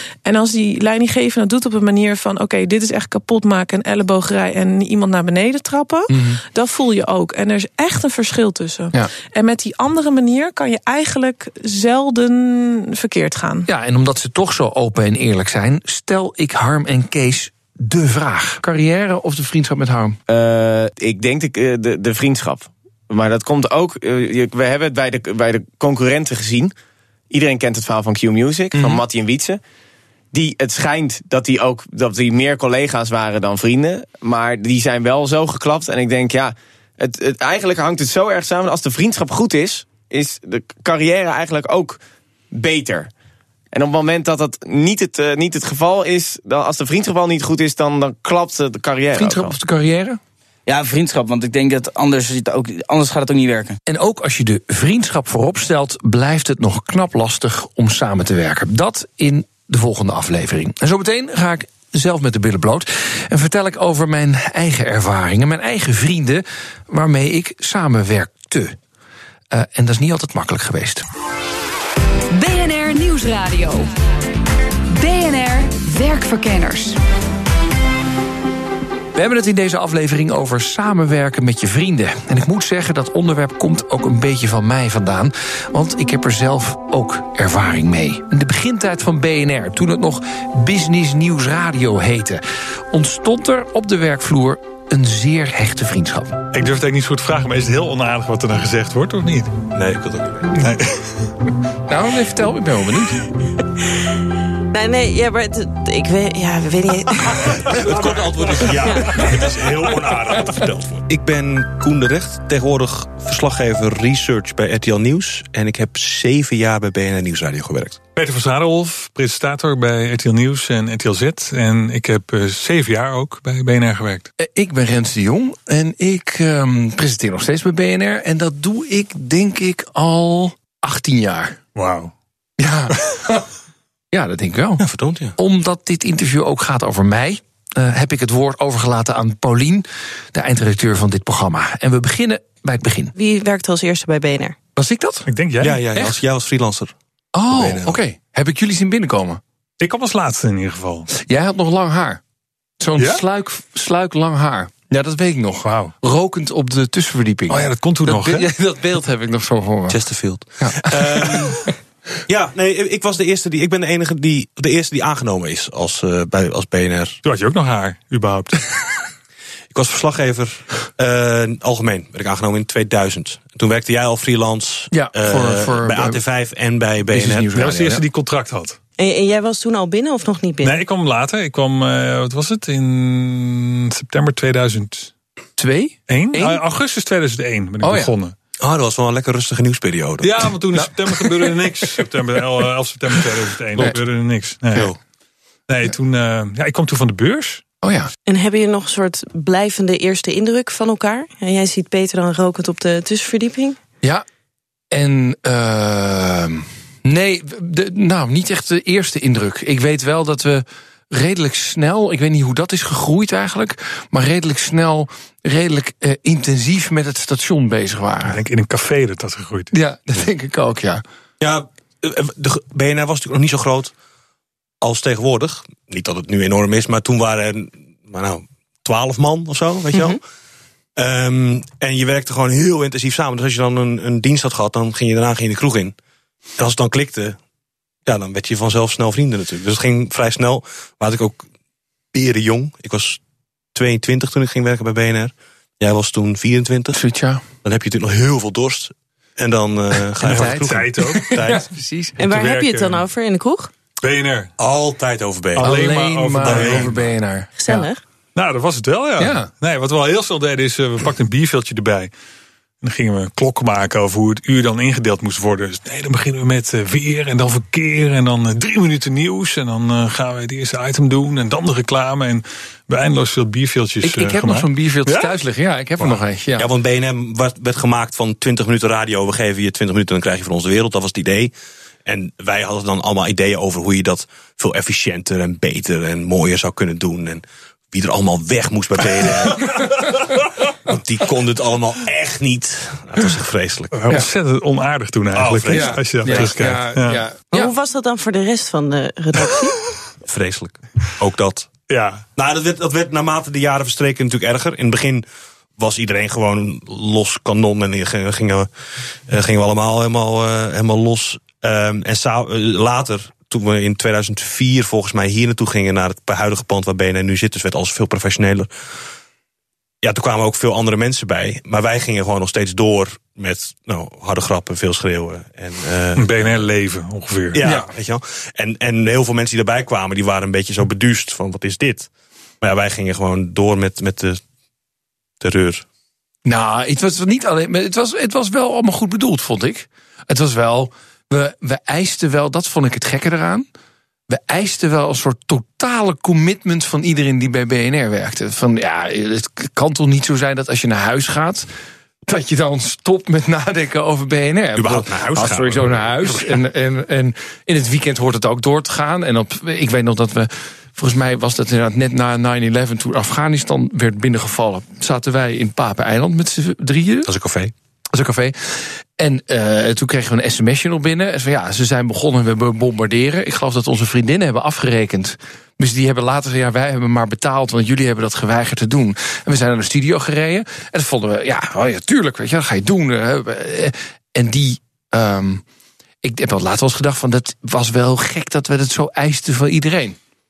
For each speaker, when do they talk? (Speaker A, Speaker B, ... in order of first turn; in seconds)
Speaker A: 0.2-13.7
Speaker B: 6.1-6.4, 13.7-20.2, 28.7-29.0, 49.1-50.2, 53.9-68.8, 69.5-71.0, 79.1-96.4, 101.9-103.2, 124.4-131.6, 132.6-133.5, 134.1-134.8, 135.4-143.1, 144.8-145.2, 147.3-149.4, 151.1-152.2, 152.8-160.0, 160.6-161.5, 174.9-176.2, 177.1-178.0, 185.6-186.6, 187.8-188.1, 190.7-191.3, 197.8-198.1, 204.9-218.4, 219.7-221.0, 246.9-247.4, 250.2-252.1, 255.6-257.5, 259.2-259.5, 274.0-276.7, 295.7-297.7, 336.4-343.7, 344.3-351.7, 352.3-367.3, 368.1-385.6, 386.2-390.2
Speaker C: 20.3-26.7, 27.3-29.6, 30.3-42.0, 42.5-43.1, 43.7-49.5
Speaker D: 50.7-53.8
Speaker E: 72.3-73.9, 74.9-77.0
Speaker F: 96.5-99.5, 100.6-101.0, 107.9-109.3, 118.2-124.3, 131.8-132.1, 145.3-146.1, 149.8-151.1, 155.6-155.9, 157.5-158.5, 167.2-168.6, 177.5-178.8, 180.6-185.1, 186.1-188.3, 190.2-194.9, 195.7-197.6, 218.2-219.7, 250.2-251.4, 252.2-253.0, 254.0-254.5, 255.6-257.1, 257.7-262.1, 262.8-275.3, 293.9-297.2, 301.9-302.2, 326.1-327.6
Speaker G: 99.7-100.5, 107.5-118.0, 134.8-135.3, 145.6-146.9, 147.5-148.0, 159.9-161.6, 162.3-167.2, 169.7-177.5, 188.6-190.5, 221.4-223.9, 224.8-230.2, 231.0-235.9, 236.6-237.4, 238.1-241.4, 242.1-243.2, 243.7-247.0, 247.6-251.6, 254.6-255.8, 256.4-256.9, 276.6-281.5, 282.1-290.3, 290.9-293.9, 295.4-296.6, 300.3-301.7, 302.4-305.2, 305.8-308.7, 309.3-318.7, 320.0-326.3, 327.5-332.1, 332.6-334.4, 335.4-335.9, 354.8-356.6, 367.3-367.7
Speaker H: 104.7-107.8, 143.1-144.6, 179.0-180.8, 198.2-203.8, 252.2-253.7, 257.6-258.0, 297.5-299.8